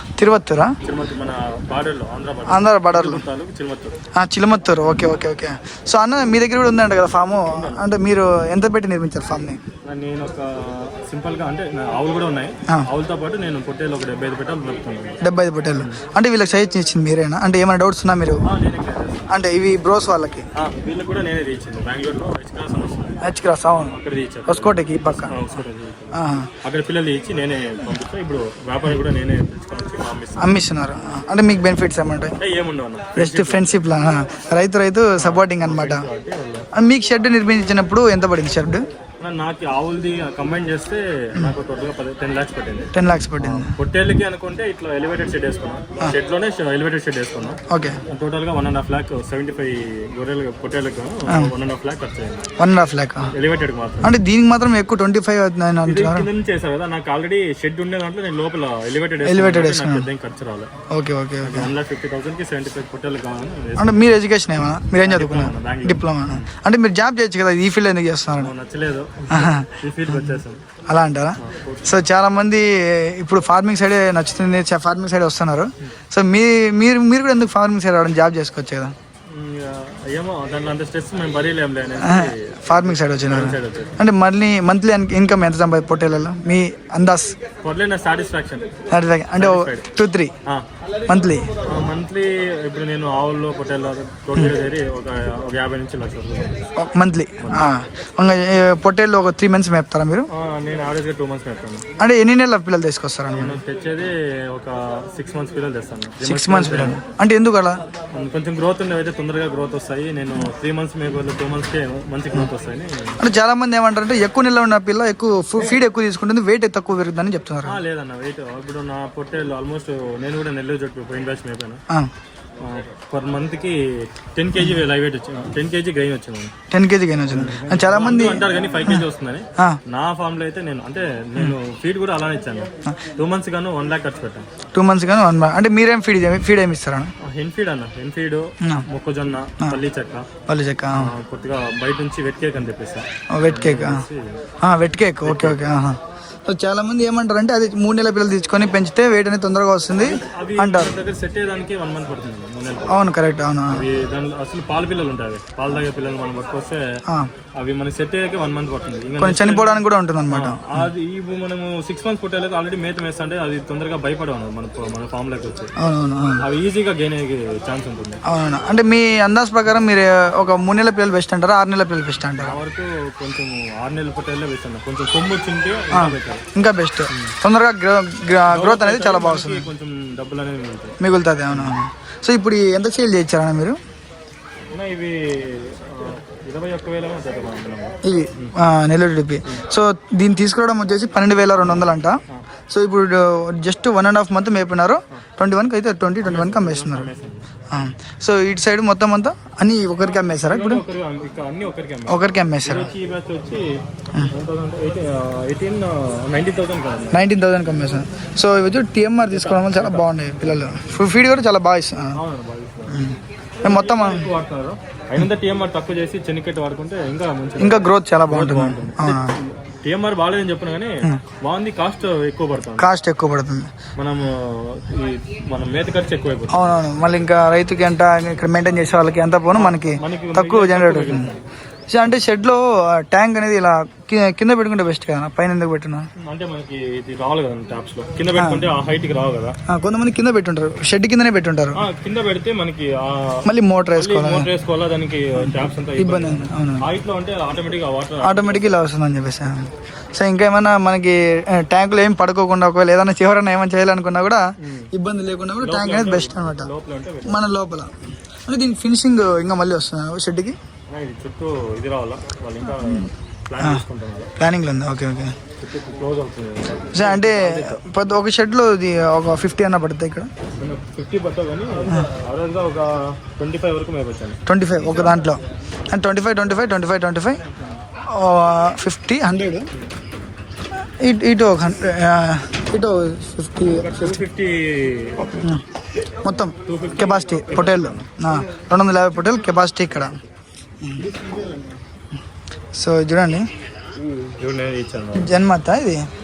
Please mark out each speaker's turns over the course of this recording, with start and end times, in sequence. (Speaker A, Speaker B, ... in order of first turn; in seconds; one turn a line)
Speaker A: 0.2-0.8
Speaker B: 0.8-4.0
Speaker A: 2.5-3.2
Speaker A: 4.1-9.6
Speaker B: 7.4-7.8
Speaker B: 9.8-15.2
Speaker A: 15.2-18.4
Speaker B: 18.4-19.3
Speaker A: 19.3-20.4
Speaker B: 20.6-23.2
Speaker A: 23.2-23.9
Speaker B: 23.7-30.6
Speaker A: 24.5-25.4
Speaker A: 26.1-26.5
Speaker A: 30.4-32.4
Speaker B: 32.4-33.7
Speaker A: 33.1-36.0
Speaker B: 35.2-36.7
Speaker A: 36.7-38.8
Speaker B: 39.2-52.5
Speaker A: 42.9-43.7
Speaker A: 47.7-48.0
Speaker A: 52.6-53.3
Speaker B: 53.3-54.1
Speaker A: 54.0-56.3
Speaker B: 55.8-60.7
Speaker A: 59.2-60.1
Speaker A: 60.9-61.7
Speaker B: 61.4-64.2
Speaker A: 63.8-68.5
Speaker B: 65.0-66.4
Speaker B: 68.4-70.6
Speaker A: 69.3-70.3
Speaker A: 70.9-78.9
Speaker B: 71.4-71.9
Speaker B: 79.3-84.0
Speaker A: 82.0-87.3
Speaker B: 87.6-88.7
Speaker A: 88.9-90.3
Speaker B: 89.4-89.9
Speaker A: 91.1-91.5
Speaker B: 91.6-96.5
Speaker A: 96.8-100.3
Speaker B: 97.4-97.7
Speaker B: 100.3-101.8
Speaker A: 102.0-103.6
Speaker B: 103.3-107.0
Speaker A: 106.2-107.8
Speaker B: 108.1-113.2
Speaker A: 113.2-117.8
Speaker B: 117.7-121.8
Speaker B: 122.6-126.5
Speaker A: 126.7-129.0
Speaker B: 127.3-134.5
Speaker A: 134.7-137.1
Speaker B: 137.3-140.3
Speaker A: 140.5-141.1
Speaker B: 141.0-144.4
Speaker A: 143.3-144.0
Speaker A: 144.6-150.9
Speaker B: 145.2-145.7
Speaker B: 150.0-153.1
Speaker A: 152.9-153.8
Speaker B: 153.7-156.8
Speaker B: 157.5-165.7
Speaker A: 159.2-160.8
Speaker A: 165.8-166.4
Speaker B: 166.4-168.2
Speaker A: 168.2-172.6
Speaker B: 172.4-176.4
Speaker A: 175.9-179.7
Speaker B: 178.5-180.9
Speaker A: 181.0-183.8
Speaker B: 181.5-181.8
Speaker B: 184.7-188.5
Speaker A: 188.0-197.1
Speaker B: 196.2-197.4
Speaker A: 197.7-200.8
Speaker B: 200.4-207.2
Speaker A: 202.1-202.9
Speaker A: 207.1-212.2
Speaker B: 209.3-210.7
Speaker B: 212.2-213.1
Speaker A: 212.9-214.3
Speaker B: 213.6-222.9
Speaker A: 217.6-219.3
Speaker A: 222.8-223.7
Speaker B: 224.0-226.8
Speaker A: 226.5-231.3
Speaker B: 229.5-231.4
Speaker A: 231.9-236.1
Speaker B: 236.2-239.6
Speaker A: 238.3-238.7
Speaker A: 239.7-241.8
Speaker B: 241.8-248.8
Speaker A: 243.4-244.5
Speaker A: 246.0-246.9
Speaker A: 248.2-256.7
Speaker B: 254.6-254.9
Speaker B: 255.6-257.5
Speaker A: 257.2-260.6
Speaker B: 260.9-264.3
Speaker A: 262.8-263.8
Speaker A: 264.4-265.3
Speaker B: 265.6-267.8
Speaker A: 266.9-270.3
Speaker B: 270.6-274.4
Speaker A: 274.4-277.4
Speaker A: 278.1-279.7
Speaker A: 281.0-284.2
Speaker B: 283.6-285.5
Speaker A: 286.2-290.1
Speaker B: 286.6-288.1
Speaker A: 290.8-291.1
Speaker A: 292.7-293.5
Speaker B: 294.4-295.3
Speaker A: 295.1-296.0